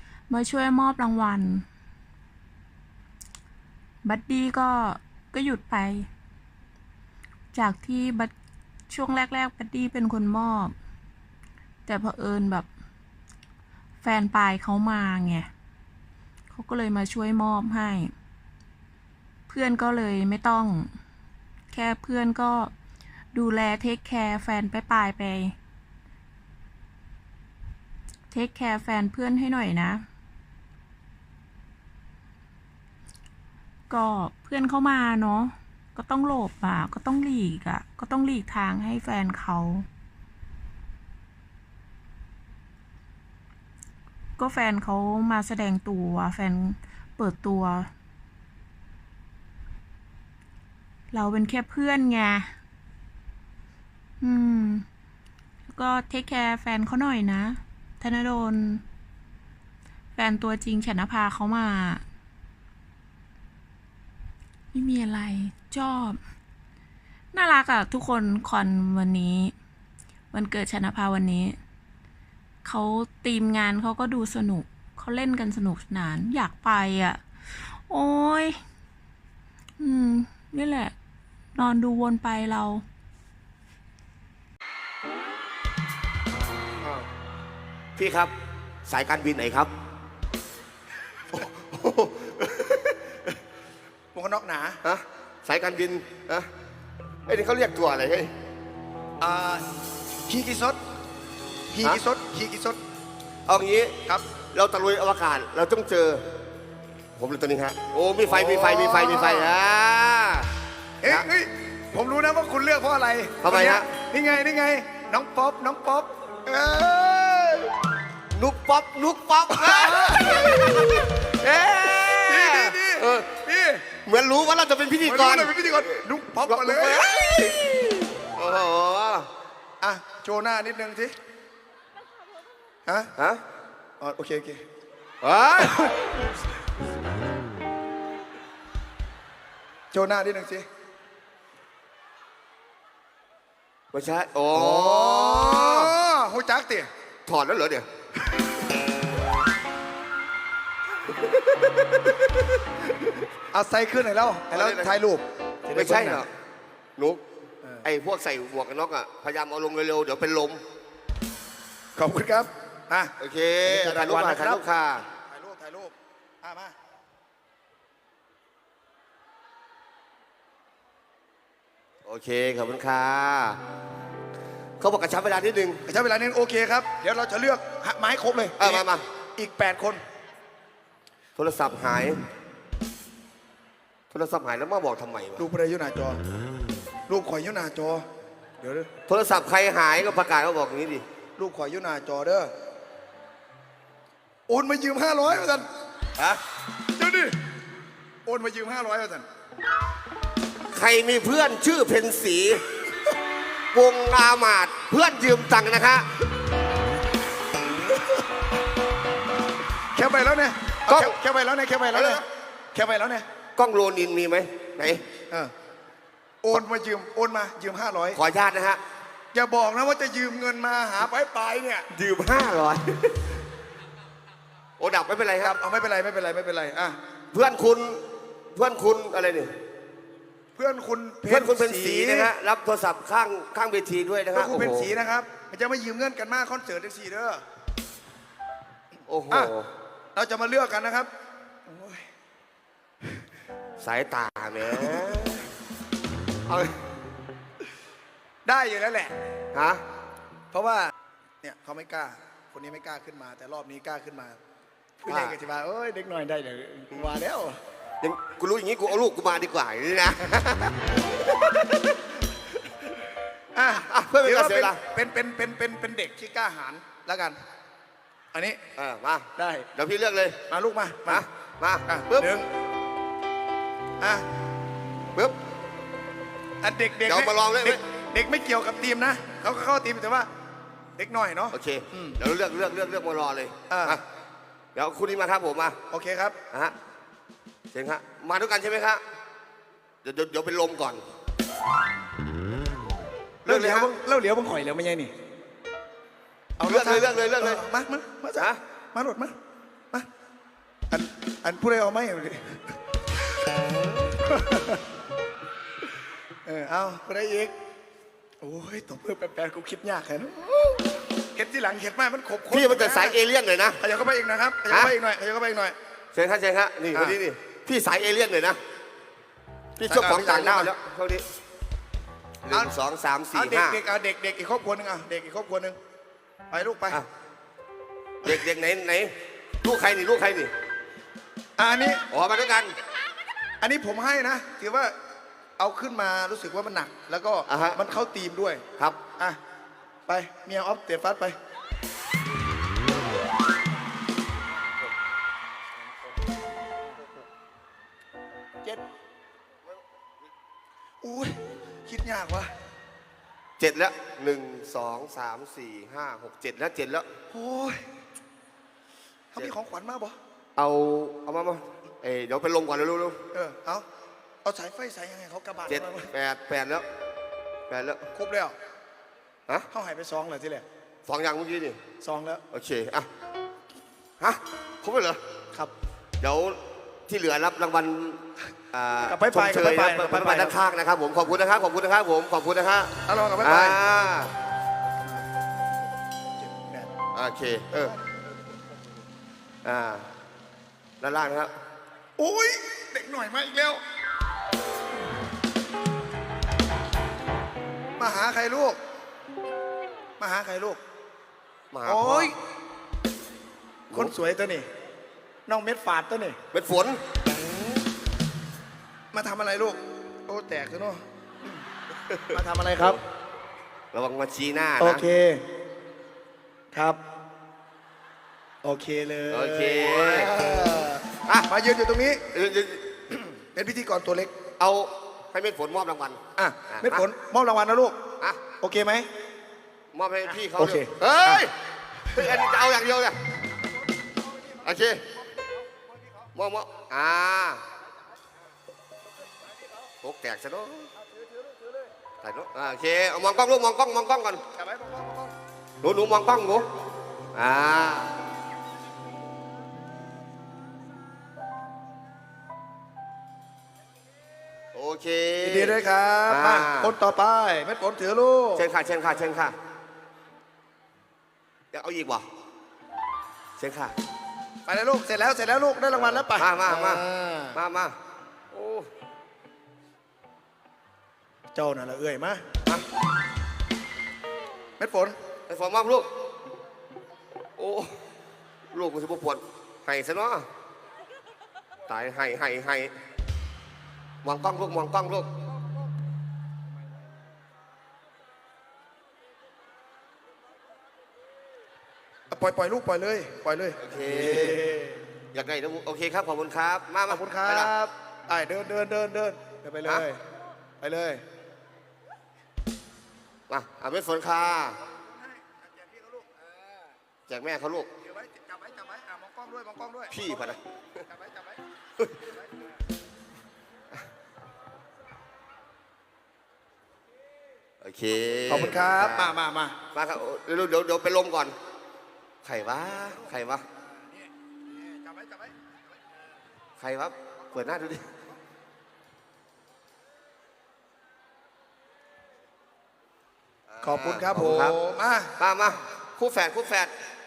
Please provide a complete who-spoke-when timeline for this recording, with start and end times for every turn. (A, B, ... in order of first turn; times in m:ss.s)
0:00.3-0:01.6 A
0:04.0-0:06.1 A
0:07.5-0:08.3 A
0:08.9-0:10.7 A
0:11.8-0:12.7 A
0:14.0-0:15.5 A
0:16.5-0:18.1 A
0:19.5-0:20.9 A
0:21.7-0:22.7 A
0:23.3-0:25.5 A
0:28.3-0:30.0 A
0:33.9-0:39.9 A
0:44.4-0:47.9 A
0:51.1-0:52.5 A
0:54.2-0:54.8 A
0:55.7-0:58.8 A
1:00.1-1:02.0 A
1:04.7-1:06.2 A
1:07.3-1:09.5 A
1:10.3-1:11.6 A
1:12.6-1:18.6 A
1:19.8-1:20.9 A
1:21.5-1:22.8 A
1:26.8-1:27.1 B
1:28.0-1:28.3 B
1:28.8-1:29.7 B
1:31.3-1:33.2 B
1:34.1-1:34.8 C
1:34.8-1:36.5 B
1:37.3-1:38.3 B
1:39.2-1:39.7 C
1:40.3-1:40.8 C
1:41.7-1:42.8 C
1:43.5-1:46.2 B
1:47.2-1:50.5 B
1:48.2-1:49.6 C
1:51.0-1:57.7 C
1:53.4-1:53.9 B
1:58.3-2:03.3 B
1:59.5-2:01.0 C
2:02.1-2:03.8 C
2:04.0-2:09.3 B
2:05.0-2:07.1 C
2:09.8-2:11.2 C
2:12.8-2:13.1 C
2:14.0-2:14.6 C
2:15.2-2:15.9 B
2:15.6-2:15.9 C
2:19.9-2:20.6 C
2:23.9-2:25.9 B
2:24.5-2:26.9 C
2:27.2-2:27.8 B
2:31.3-2:32.2 B
2:33.5-2:36.2 C
2:34.5-2:34.9 B
2:35.7-2:36.3 B
2:37.0-2:37.2 B
2:37.8-2:40.6 B
2:42.0-2:43.1 C
2:43.2-2:45.1 B
2:43.6-2:44.6 C
2:45.2-2:46.7 C
2:52.0-2:53.6 B
2:54.8-2:55.8 B
2:55.8-2:58.8 C
2:58.6-2:59.0 B
2:59.4-3:00.0 C
3:01.4-3:02.2 B
3:04.1-3:05.4 B
3:05.4-3:06.2 C
3:07.1-3:08.0 C
3:08.6-3:08.9 C
3:09.1-3:11.0 B
3:11.4-3:12.5 C
3:14.5-3:15.6 C
3:17.0-3:17.4 C
3:18.2-3:19.2 C
3:20.7-3:22.6 B
3:23.7-3:26.0 B
3:29.9-3:33.2 C
3:30.9-3:31.2 B
3:31.9-3:32.2 B
3:33.6-3:35.0 B
3:36.4-3:38.2 C
3:38.1-3:38.8 B
3:39.3-3:41.9 C
3:41.9-3:43.3 B
3:44.8-3:45.6 B
3:45.4-3:47.0 C
3:47.3-3:49.5 B
3:50.5-3:52.3 C
3:51.3-3:54.9 B
3:54.3-3:57.4 C
3:59.1-3:59.7 B
4:00.1-4:01.1 C
4:01.7-4:02.0 C
4:03.8-4:05.5 B
4:06.5-4:06.8 B
4:08.4-4:09.1 C
4:09.5-4:09.8 B
4:10.5-4:10.9 C
4:11.4-4:14.4 C
4:15.0-4:17.6 C
4:15.1-4:15.4 B
4:18.0-4:22.0 B
4:23.5-4:27.4 C
4:23.8-4:24.8 B
4:28.3-4:28.6 C
4:28.8-4:30.4 B
4:29.4-4:29.7 C
4:30.5-4:31.2 C
4:31.1-4:32.4 B
4:31.9-4:32.5 C
4:34.0-4:34.2 C
4:36.6-4:40.3 C
4:37.0-4:37.8 B
4:41.0-4:42.2 C
4:41.5-4:44.0 B
4:43.7-4:44.0 C
4:44.7-4:45.8 B
4:45.9-4:46.4 C
4:47.7-4:49.0 B
4:50.0-4:51.0 B
4:53.4-4:53.9 B
4:53.4-4:55.1 C
4:56.6-4:59.3 C
4:56.6-4:57.6 B
5:00.9-5:02.6 C
5:04.2-5:04.8 C
5:06.4-5:07.5 C
5:08.4-5:13.2 C
5:12.5-5:13.8 B
5:13.8-5:15.8 C
5:14.7-5:15.0 B
5:16.1-5:18.6 B
5:16.9-5:17.2 C
5:19.8-5:21.2 B
5:19.8-5:20.7 C
5:22.4-5:23.8 B
5:23.3-5:25.8 C
5:26.5-5:27.0 C
5:28.2-5:30.5 B
5:31.6-5:32.0 C
5:32.1-5:32.7 B
5:33.6-5:34.9 C
5:35.6-5:38.6 C
5:37.5-5:37.8 B
5:40.1-5:41.4 C
5:51.0-5:52.5 C
5:53.6-5:57.1 B
5:57.3-5:57.8 C
5:59.3-6:00.2 C
6:00.6-6:03.2 B
6:03.3-6:03.8 C
6:04.4-6:06.1 C
6:05.7-6:06.8 B
6:07.7-6:08.1 B
6:08.1-6:08.6 C
6:09.7-6:10.6 C
6:11.1-6:11.8 B
6:12.0-6:12.4 C
6:12.5-6:13.1 B
6:14.2-6:15.2 B
6:16.2-6:24.3 B
6:19.1-6:20.6 C
6:23.1-6:23.8 C
6:26.3-6:26.9 C
6:27.1-6:27.9 B
6:29.6-6:30.1 B
6:31.0-6:31.5 B
6:32.2-6:33.8 C
6:38.0-6:38.8 C
6:40.2-6:40.8 C
6:41.7-6:42.3 B
6:41.8-6:42.4 C
6:43.9-6:44.7 C
6:45.5-6:46.4 C
6:46.5-6:47.0 B
6:49.1-6:51.6 C
6:52.1-6:53.0 B
6:52.3-6:53.0 C
6:53.9-6:55.0 B
6:54.8-6:55.4 C
6:56.7-6:57.0 C
6:58.6-7:02.2 C
6:59.3-7:00.4 B
7:02.3-7:03.0 B
7:03.3-7:04.3 C
7:04.6-7:07.0 B
7:06.4-7:08.0 C
7:08.6-7:09.1 C
7:09.9-7:11.5 B
7:10.5-7:11.4 C
7:12.1-7:13.2 B
7:14.4-7:14.7 C
7:14.6-7:15.0 B
7:15.2-7:16.3 C
7:16.3-7:17.6 B
7:20.0-7:20.9 B
7:21.0-7:21.9 C
7:22.2-7:24.4 B
7:24.5-7:25.3 C
7:25.8-7:26.7 B
7:27.3-7:28.1 B
7:34.7-7:37.0 B
7:35.4-7:38.7 C
7:38.5-7:39.5 B
7:41.7-7:42.2 B
7:43.6-7:43.9 B
7:44.6-7:47.6 C
7:45.9-7:47.9 B
7:48.5-7:48.9 B
7:51.5-7:52.4 C
7:54.8-7:55.2 C
7:55.5-7:56.1 B
7:57.6-7:58.0 B
7:58.7-8:00.5 B
8:01.9-8:03.0 B
8:04.2-8:05.3 B
8:12.3-8:15.0 C
8:13.8-8:14.6 B
8:15.3-8:17.7 B
8:17.1-8:20.2 C
8:20.8-8:21.2 C
8:23.5-8:24.8 B
8:24.9-8:26.4 C
8:27.3-8:27.9 B
8:28.0-8:31.6 C
8:30.1-8:30.6 B
8:37.8-8:39.4 B
8:38.5-8:39.8 C
8:39.9-8:41.5 B
8:42.4-8:43.6 B
8:44.1-8:45.6 C
8:46.8-8:48.1 B
8:53.7-8:54.8 B
8:53.8-8:55.3 C
8:55.4-8:56.9 B